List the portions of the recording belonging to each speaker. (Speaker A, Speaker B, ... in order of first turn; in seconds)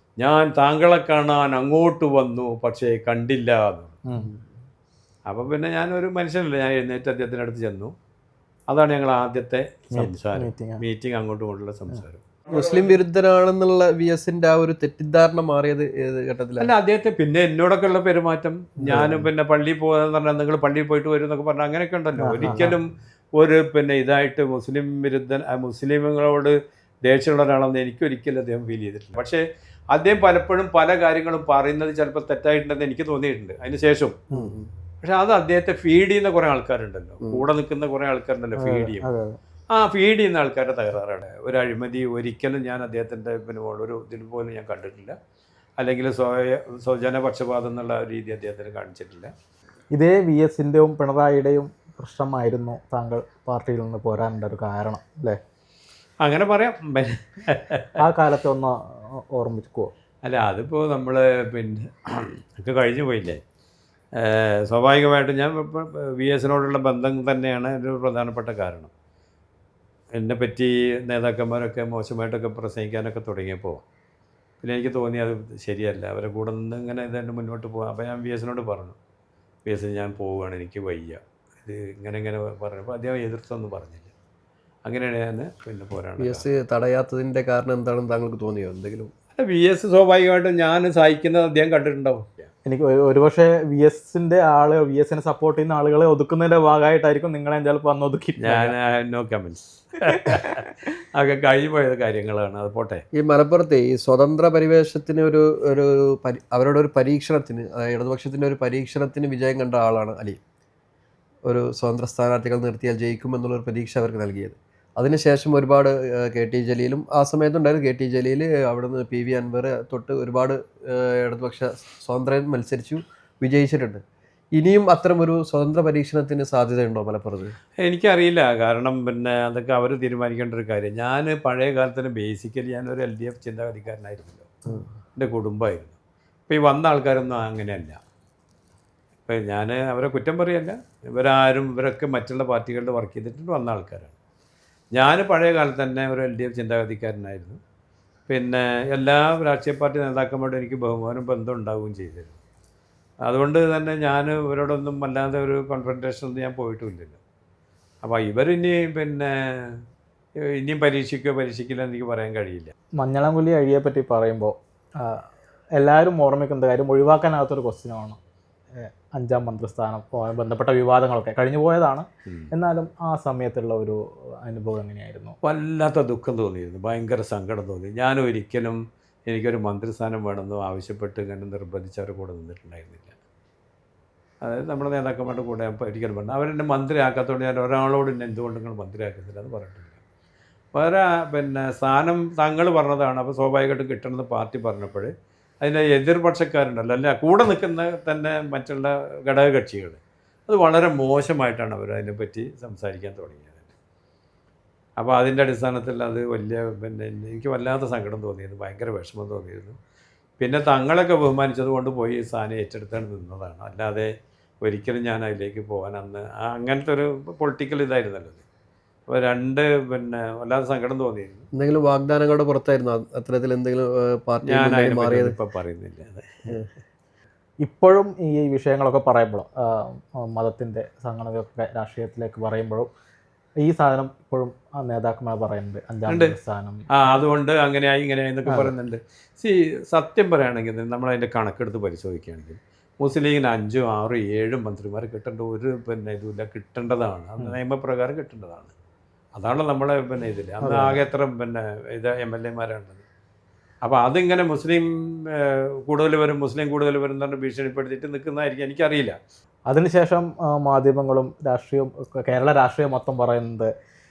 Speaker A: 0.2-4.0, 5.3-7.9, 8.7-12.2, 16.6-26.5, 27.1-29.4, 29.9-34.2, 35.0-39.0, 39.7-45.2, 45.8-49.3, 56.2-58.0, 60.2-63.4, 64.2-68.9, 70.2-73.8, 74.6-79.0, 79.7-84.1, 84.8-86.4, 89.4-92.4, 98.4-103.0, 127.8-134.5, 135.2-135.9, 136.5-138.0, 139.3-144.2, 144.9-147.6, 148.3-152.4, 153.3-157.2, 158.0-159.8, 160.5-162.7, 172.2-172.5, 175.4-183.2, 184.4-190.0, 190.7-203.7, 205.0-209.8, 210.4-214.1, 214.6-218.4, 219.1-221.5, 224.4-226.5, 236.1-236.3, 236.9-248.7, 249.3-253.0, 253.8-259.2
Speaker B: 9.9-10.8, 18.8-19.3, 22.2-22.8, 38.6-39.4, 49.9-55.4, 58.0-58.7, 59.3-59.9, 92.6-98.7, 163.0-165.2, 165.8-168.2, 168.7-175.3, 227.6-232.9, 233.6-237.2, 250.6-251.0, 259.7-263.7
Speaker C: 12.5-16.7, 34.3-34.7, 86.2-89.1, 103.1-110.4, 111.5-124.0, 124.5-127.5, 221.5-225.3